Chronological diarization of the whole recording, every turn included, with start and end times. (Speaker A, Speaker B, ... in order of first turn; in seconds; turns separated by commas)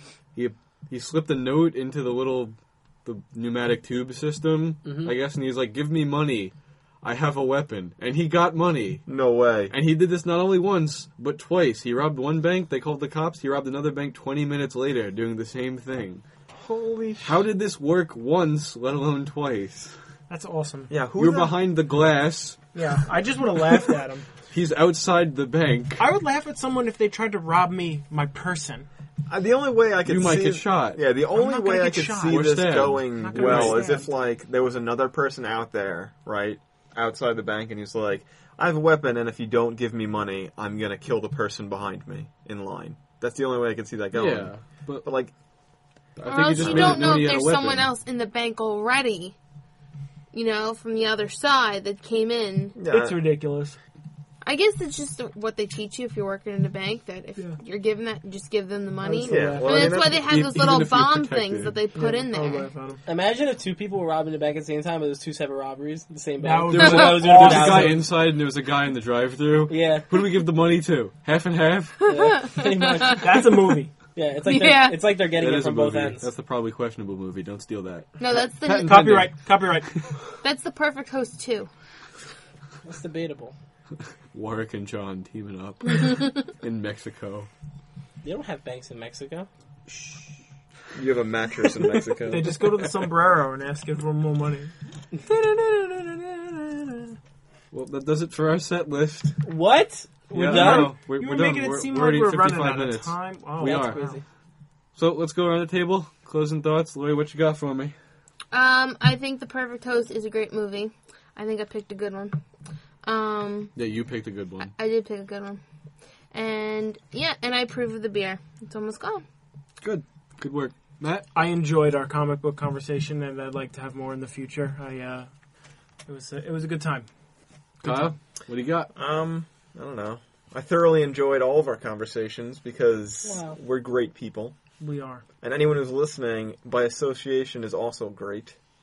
Speaker A: 0.3-9.1, Speaker B: 4.8-5.1, Speaker C: 9.1-9.7, Speaker A: 9.7-16.2, Speaker C: 16.5-17.4, Speaker A: 17.2-20.0, Speaker D: 20.3-20.9, Speaker C: 20.9-21.6, Speaker A: 21.2-22.6, Speaker D: 22.7-24.3, Speaker A: 24.5-26.0, Speaker D: 26.0-28.9, Speaker C: 29.3-44.5, Speaker A: 30.1-31.0, Speaker D: 31.3-32.6, Speaker A: 32.2-33.9, Speaker D: 33.2-34.1, Speaker A: 44.1-45.1, Speaker C: 45.0-45.3, Speaker A: 46.2-47.9, Speaker E: 46.2-49.4, Speaker C: 46.6-47.2, Speaker E: 50.3-52.8, Speaker C: 52.8-53.2, Speaker D: 52.9-53.8, Speaker E: 54.4-62.7, Speaker D: 59.0-60.0, Speaker C: 59.2-60.4, Speaker A: 60.0-61.8, Speaker D: 61.9-63.0, Speaker B: 63.1-68.0, Speaker D: 66.4-68.1, Speaker A: 66.7-72.0, Speaker B: 69.7-70.1, Speaker B: 72.1-73.5, Speaker E: 72.1-73.1, Speaker D: 73.2-73.9, Speaker B: 74.1-76.3, Speaker E: 74.5-75.0, Speaker A: 75.4-80.0, Speaker E: 78.2-79.2, Speaker D: 78.8-80.0, Speaker E: 80.4-81.7, Speaker B: 82.8-83.5, Speaker A: 84.3-87.5, Speaker B: 88.2-89.5, Speaker C: 91.0-92.6, Speaker D: 92.3-94.7, Speaker B: 95.2-97.0, Speaker A: 97.7-99.4, Speaker B: 99.4-100.9, Speaker D: 100.3-104.2, Speaker A: 100.3-104.2, Speaker B: 103.6-104.2, Speaker A: 105.0-107.9, Speaker E: 108.5-112.4, Speaker E: 113.0-113.7, Speaker A: 113.8-114.7, Speaker E: 114.6-115.6, Speaker E: 116.3-119.2, Speaker A: 119.8-121.3, Speaker D: 121.3-125.3, Speaker D: 126.1-127.1, Speaker A: 127.8-128.9, Speaker C: 128.9-134.6, Speaker B: 133.2-133.6, Speaker D: 134.8-135.2, Speaker C: 135.4-138.6